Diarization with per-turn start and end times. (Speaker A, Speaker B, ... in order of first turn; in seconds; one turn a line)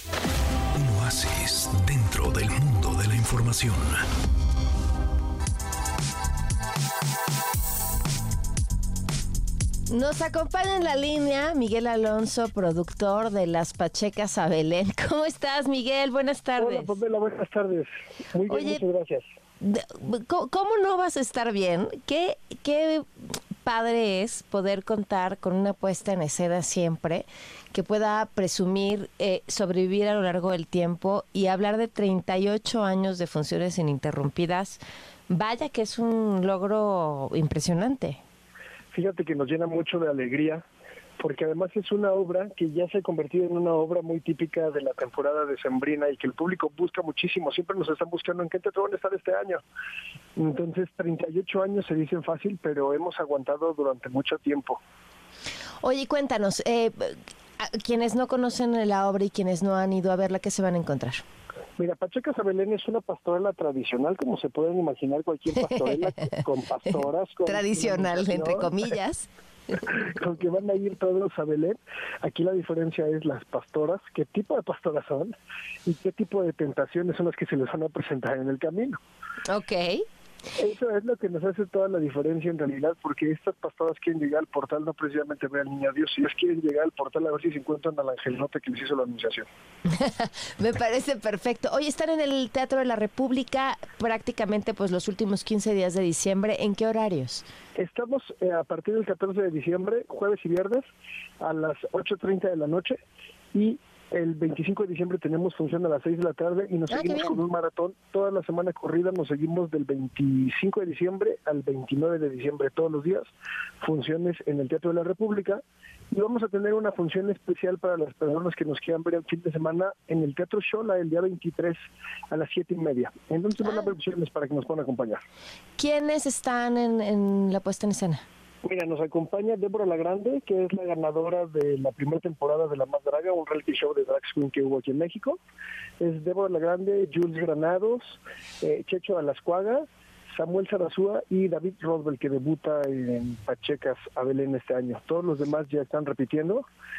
Speaker A: 0.7-4.0
Speaker B: 9.9-16.9
Speaker C: 16.6-19.2
Speaker B: 18.5-18.8
Speaker B: 19.6-38.2
Speaker C: 38.9-40.6
Speaker C: 41.2-49.6
Speaker C: 50.4-54.8
Speaker B: 55.8-61.2
Speaker C: 61.8-68.7
Speaker B: 65.9-66.4
Speaker B: 67.5-69.3
Speaker C: 69.8-75.3
Speaker C: 75.8-79.0
Speaker B: 79.5-80.0
Speaker C: 80.5-89.5
Speaker B: 89.9-97.5
Speaker C: 97.8-100.8
Speaker C: 101.4-103.0
Speaker C: 103.5-121.8
Speaker B: 106.9-107.4
Speaker C: 122.3-125.2
Speaker B: 125.8-128.2
Speaker C: 128.6-135.4
Speaker C: 136.0-146.6